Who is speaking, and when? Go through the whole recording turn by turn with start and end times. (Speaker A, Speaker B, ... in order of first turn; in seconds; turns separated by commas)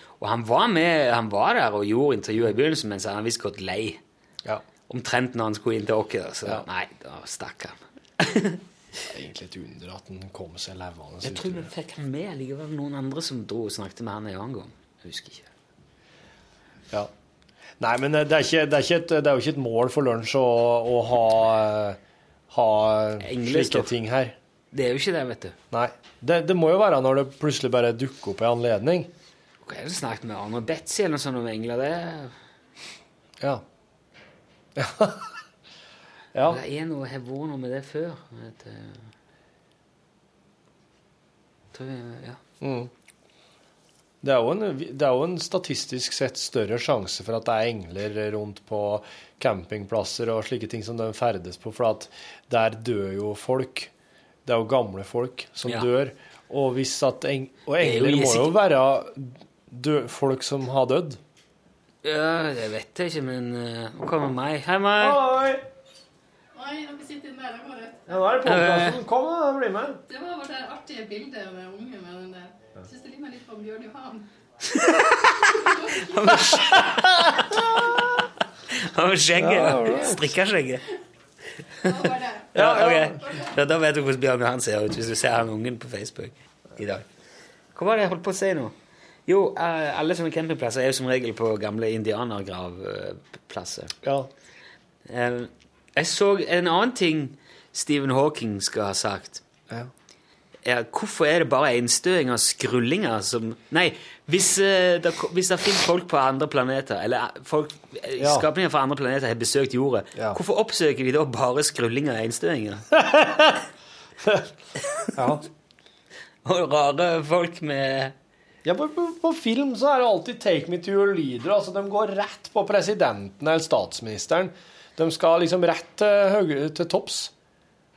Speaker A: 0.2-4.0, Speaker A: 4.9-8.6, Speaker B: 9.1-11.7, Speaker A: 11.2-15.5, Speaker B: 17.8-22.0, Speaker B: 22.5-24.4, Speaker A: 23.2-23.9, Speaker A: 24.7-25.6, Speaker B: 25.7-29.1, Speaker A: 29.6-32.3, Speaker B: 34.8-35.3, Speaker B: 36.4-36.6, Speaker A: 36.5-39.1, Speaker A: 41.7-42.4, Speaker B: 42.6-42.9, Speaker B: 44.2-53.9, Speaker B: 54.5-61.2, Speaker A: 57.8-58.6, Speaker A: 62.0-65.2, Speaker B: 65.0-65.6, Speaker C: 66.5-68.3, Speaker B: 68.1-70.0, Speaker A: 68.5-69.0, Speaker C: 70.1-74.3, Speaker A: 74.7-75.3, Speaker A: 76.1-77.7, Speaker B: 76.5-77.8, Speaker A: 78.7-80.8, Speaker B: 79.4-80.2, Speaker C: 81.9-82.6, Speaker B: 82.5-83.2, Speaker A: 82.5-87.0, Speaker A: 87.7-88.7, Speaker A: 89.3-93.9, Speaker B: 94.0-94.3, Speaker A: 95.1-99.4, Speaker A: 100.7-112.8, Speaker B: 108.2-108.5, Speaker B: 110.2-110.4, Speaker B: 113.0-113.5, Speaker B: 115.2-115.4, Speaker A: 116.5-118.2, Speaker B: 118.6-127.3